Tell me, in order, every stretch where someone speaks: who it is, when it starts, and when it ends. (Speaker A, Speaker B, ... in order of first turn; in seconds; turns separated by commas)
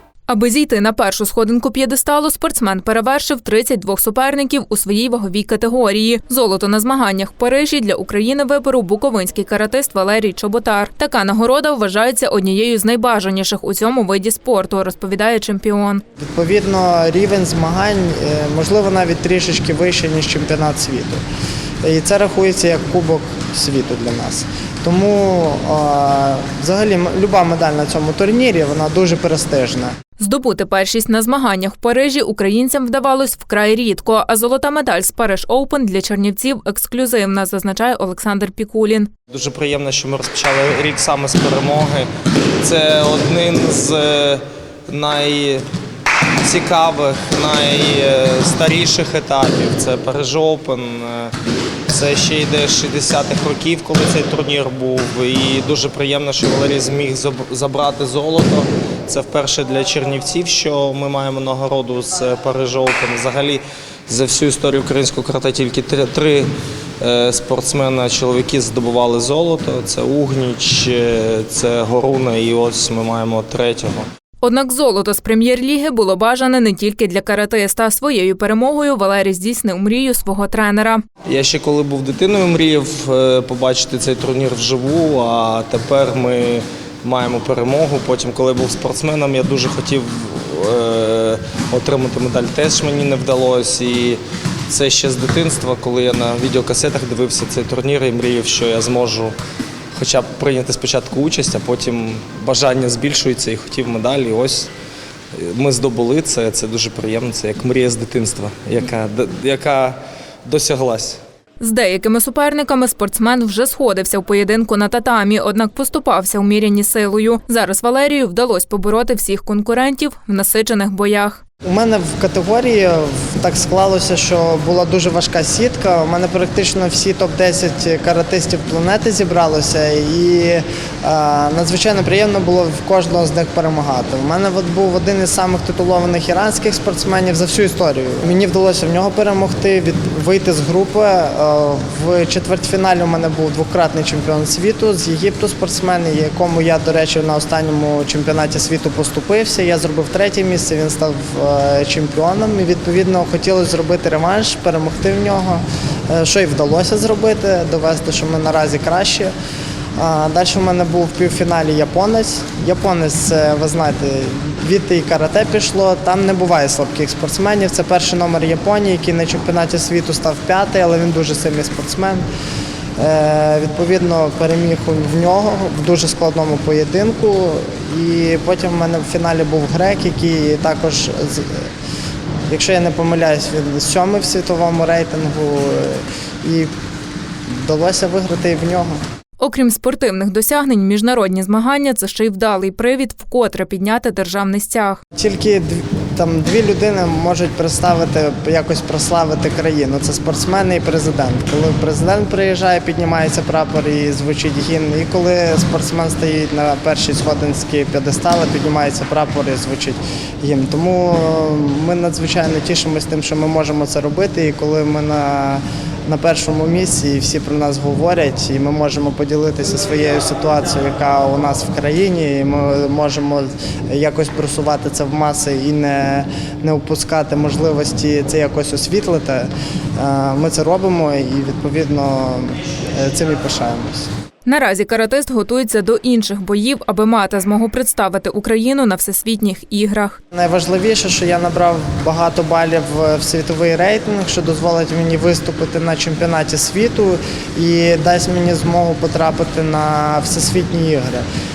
Speaker A: 0.3-16.0, Speaker B: 16.2-21.2, Speaker B: 21.8-29.9, Speaker A: 30.2-39.1, Speaker C: 39.3-42.1, Speaker C: 42.6-45.6, Speaker C: 46.4-51.4, Speaker C: 51.9-66.5, Speaker C: 67.0-74.1, Speaker A: 74.4-81.0, Speaker C: 81.3-99.3, Speaker C: 99.9-104.7, Speaker C: 105.3-111.2, Speaker A: 111.6-121.4, Speaker B: 121.6-159.3, Speaker B: 160.0-172.2, Speaker B: 173.0-181.7, Speaker B: 182.5-186.7, Speaker B: 187.5-189.0, Speaker A: 189.4-195.0, Speaker B: 195.1-234.1, Speaker A: 234.5-240.2, Speaker B: 240.3-251.2